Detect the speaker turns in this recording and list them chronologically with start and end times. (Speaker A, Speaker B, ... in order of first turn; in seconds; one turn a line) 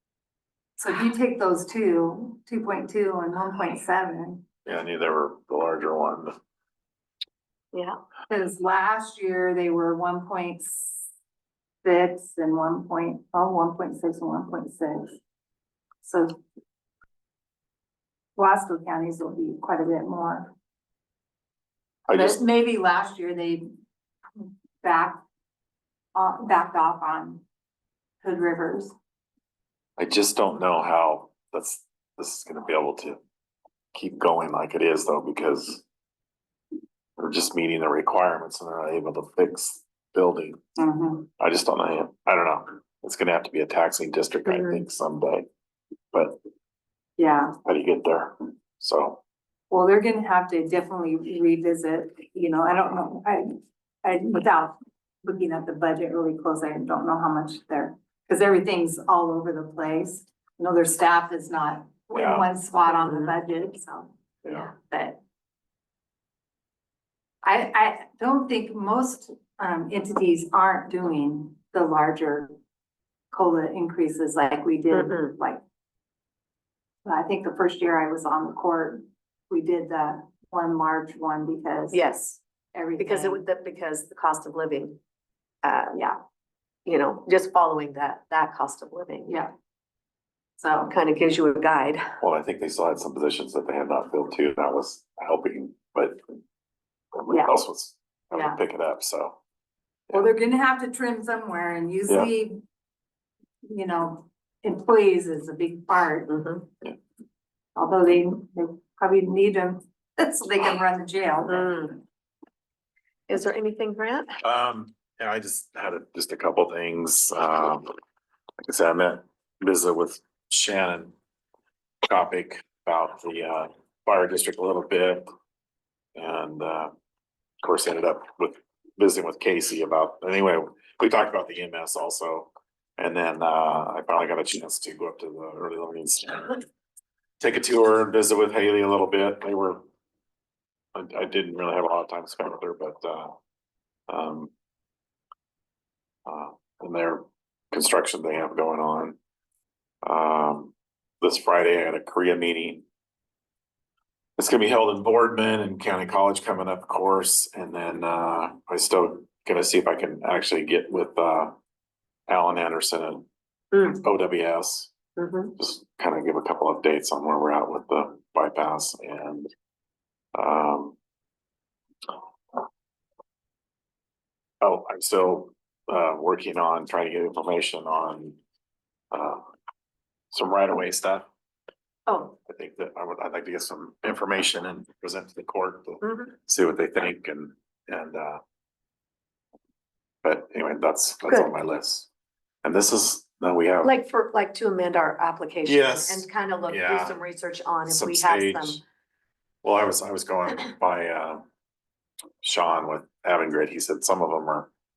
Speaker A: 0.8-4.4
Speaker B: 4.7-6.3
Speaker A: 8.3-11.1
Speaker A: 11.8-15.2
Speaker A: 16.0-16.4
Speaker A: 18.4-20.5
Speaker B: 22.1-22.4
Speaker A: 22.1-23.7
Speaker A: 24.8-25.2
Speaker A: 26.1-27.4
Speaker A: 28.2-28.9
Speaker B: 30.0-33.2
Speaker B: 33.9-35.8
Speaker B: 37.2-40.6
Speaker A: 40.8-41.3
Speaker B: 41.4-45.5
Speaker C: 44.5-44.8
Speaker B: 46.1-46.4
Speaker A: 47.2-47.6
Speaker B: 47.6-49.2
Speaker A: 49.7-65.2
Speaker B: 62.1-62.5
Speaker C: 62.9-63.3
Speaker A: 67.4-72.5
Speaker A: 73.3-75.6
Speaker C: 74.9-75.4
Speaker A: 77.0-82.0
Speaker C: 81.9-82.4
Speaker A: 82.7-83.4
Speaker C: 83.0-85.0
Speaker C: 85.6-86.0
Speaker C: 86.9-89.3
Speaker A: 90.6-91.0
Speaker C: 90.9-92.0
Speaker B: 92.2-96.2
Speaker B: 97.2-99.4
Speaker A: 100.1-102.6
Speaker A: 103.7-106.4
Speaker C: 106.3-106.7
Speaker A: 107.8-111.9
Speaker C: 111.5-112.0
Speaker C: 113.3-114.3
Speaker B: 114.4-117.9
Speaker B: 118.6-121.1
Speaker B: 122.0-125.3
Speaker B: 126.2-126.9
Speaker B: 127.6-136.6
Speaker B: 137.4-139.8
Speaker B: 140.9-143.3
Speaker B: 144.1-144.5
Speaker B: 146.3-149.2
Speaker B: 150.0-152.8
Speaker B: 154.4-161.5
Speaker B: 162.3-163.3
Speaker C: 163.7-164.0
Speaker B: 163.9-164.9
Speaker C: 165.2-165.5
Speaker B: 165.6-169.5
Speaker B: 170.3-171.0
Speaker B: 174.6-178.4
Speaker B: 179.1-179.4
Speaker B: 180.3-181.3
Speaker C: 182.1-182.3
Speaker B: 182.4-188.4
Speaker C: 186.0-186.3
Speaker B: 190.2-192.1
Speaker B: 192.6-193.9
Speaker C: 193.8-198.8
Speaker B: 195.7-197.2
Speaker B: 197.9-198.8
Speaker B: 199.6-201.4
Speaker B: 202.4-204.7